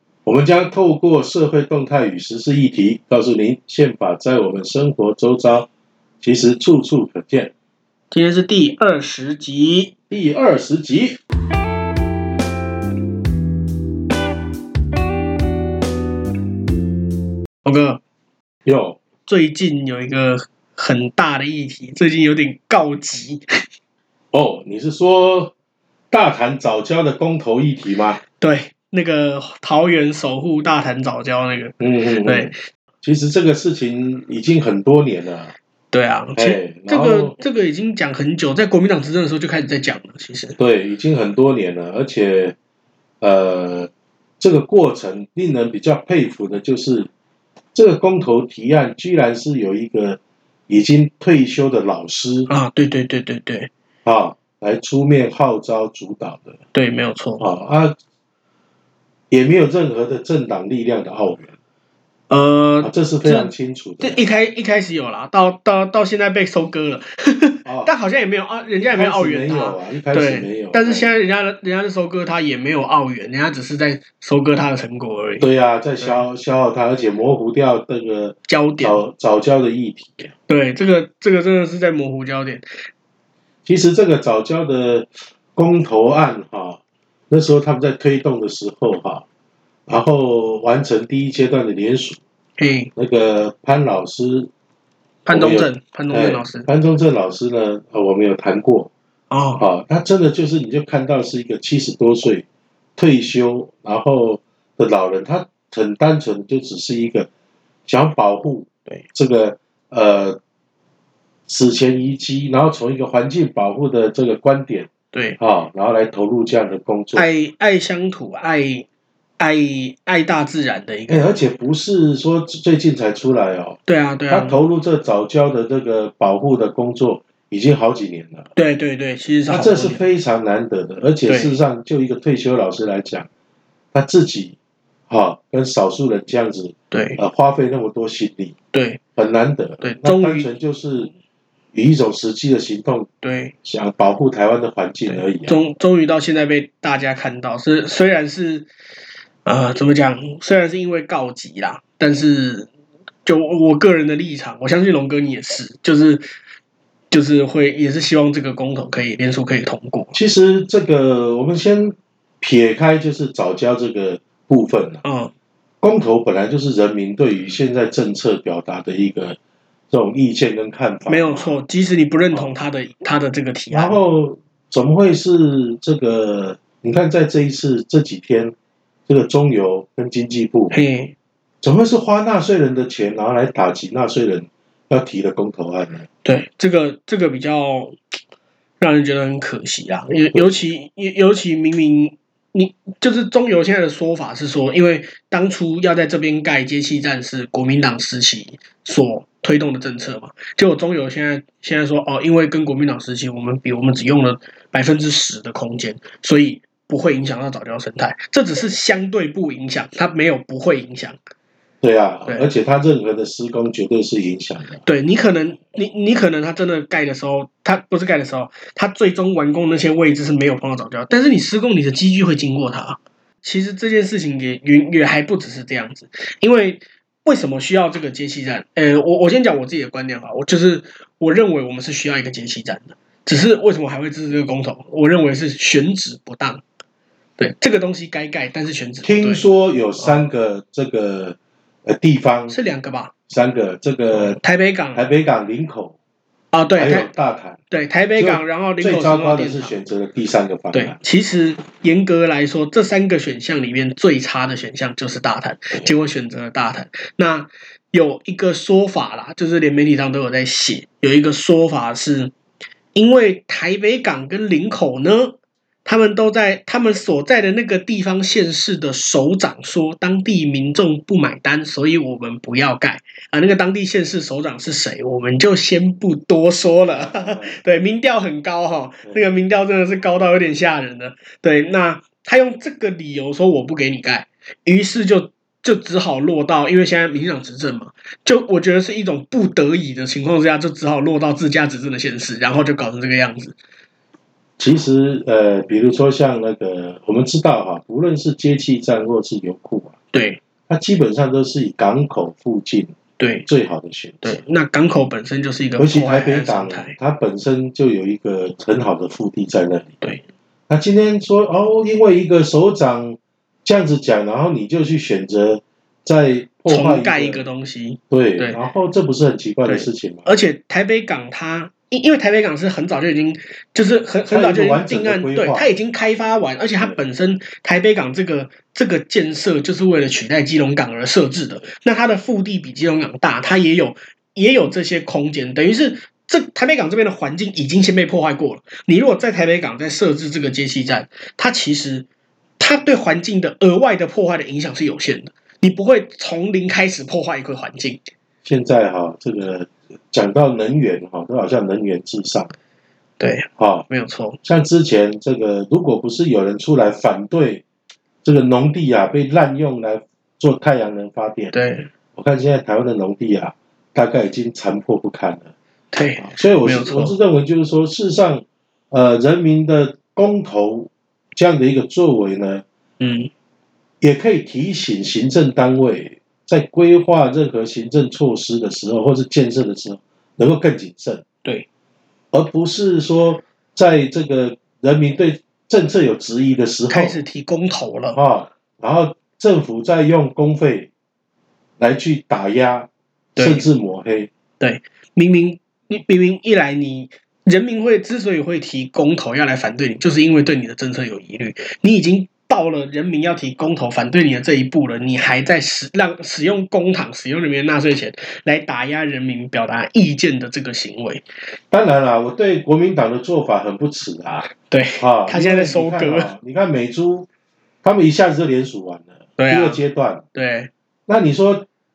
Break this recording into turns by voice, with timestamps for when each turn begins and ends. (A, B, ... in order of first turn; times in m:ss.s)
0:00.2-0:05.7 A
0:06.2-0:07.5 A
0:08.1-0:09.9 B
0:10.1-0:11.2 A
0:17.6-0:18.0 B
0:18.6-0:19.0 A
0:19.2-0:23.4 B
0:24.3-0:25.5 A
0:26.1-0:28.2 A
0:28.4-0:32.6 B
0:31.8-0:35.5 A
0:35.9-0:40.6 B
0:36.4-0:37.4 A
0:40.6-0:42.6 A
0:43.2-0:47.1 A
0:47.8-0:52.5 A
0:52.5-0:53.7 B
0:54.0-0:56.6 A
0:56.7-0:57.5 B
0:57.4-0:58.0 A
0:59.3-1:01.6 A
1:02.3-1:15.5 B
1:02.8-1:04.2 A
1:07.6-1:07.9 A
1:08.9-1:11.2 A
1:15.4-1:20.3 A
1:16.0-1:16.2 B
1:18.5-1:19.0 B
1:20.5-1:22.7 B
1:23.7-1:29.2 A
1:29.9-1:32.2 A
1:32.6-1:32.9 B
1:33.0-1:34.5 A
1:35.2-1:36.7 B
1:35.3-1:38.9 A
1:39.3-1:39.6 B
1:39.6-1:42.4 A
1:43.0-1:47.3 A
1:47.9-1:50.4 A
1:51.5-1:57.3 A
1:55.1-1:55.4 B
1:57.2-1:58.9 B
1:59.4-2:01.3 B
2:01.1-2:03.8 A
2:03.9-2:04.6 B
2:04.3-2:08.5 A
2:08.6-2:10.0 B
2:09.5-2:13.3 A
2:11.3-2:11.6 B
2:13.9-2:14.6 A
2:15.1-2:18.5 A
2:16.9-2:17.2 B
2:18.7-2:19.0 B
2:19.2-2:21.1 A
2:19.8-2:20.5 B
2:21.7-2:23.1 A
2:23.2-2:23.5 B
2:23.6-2:25.6 A
2:25.1-2:28.7 B
2:29.5-2:32.7 B
2:33.2-2:36.2 B
2:37.1-2:40.2 B
2:40.1-2:45.0 A
2:45.0-2:45.3 B
2:45.8-2:49.4 A
2:49.9-2:51.6 A
2:51.1-2:54.0 B
2:53.7-2:58.6 A
2:59.1-3:00.8 A
3:00.7-3:01.1 B
3:01.6-3:06.1 A
3:06.2-3:08.0 B
3:08.8-3:31.2 B
3:31.8-3:34.8 A
3:34.8-3:56.6 B
3:57.4-3:59.4 B
3:59.0-4:02.6 A
4:00.0-4:00.3 B
4:02.5-4:03.1 B
4:03.3-4:04.4 A
4:04.1-4:05.1 B
4:05.0-4:06.0 A
4:06.5-4:07.1 B
4:06.8-4:07.6 A
4:07.7-4:09.8 B
4:08.2-4:11.0 A
4:10.7-4:22.3 B
4:23.0-4:53.6 B
4:36.9-4:37.6 A
4:54.6-5:00.0 A
5:00.1-5:00.4 B
5:00.7-5:03.0 A
5:03.2-5:03.5 B
5:03.5-5:04.4 A
5:04.2-5:07.0 B
5:05.8-5:09.9 A
5:10.7-5:17.5 A
5:16.7-5:18.6 B
5:18.1-5:20.4 A
5:19.6-5:42.1 B
5:24.3-5:25.7 A
5:42.6-5:48.0 B
5:48.4-5:52.5 A
5:53.2-5:54.4 B
5:53.6-5:53.9 A
5:54.4-5:57.6 A
5:58.2-6:01.5 A
6:01.5-6:01.9 B
6:02.2-6:05.5 A
6:05.9-6:07.2 B
6:06.2-6:12.6 A
6:13.0-6:13.3 B
6:14.0-6:21.2 A
6:22.3-6:27.2 A
6:26.9-6:28.2 B
6:28.1-6:30.9 A
6:31.8-6:34.3 A
6:33.4-6:33.7 B
6:34.6-6:51.2 B
6:51.7-6:57.3 A
6:54.6-6:56.3 B
6:57.8-7:00.2 A
6:59.4-6:59.8 B
7:00.3-7:00.7 B
7:01.1-7:01.7 A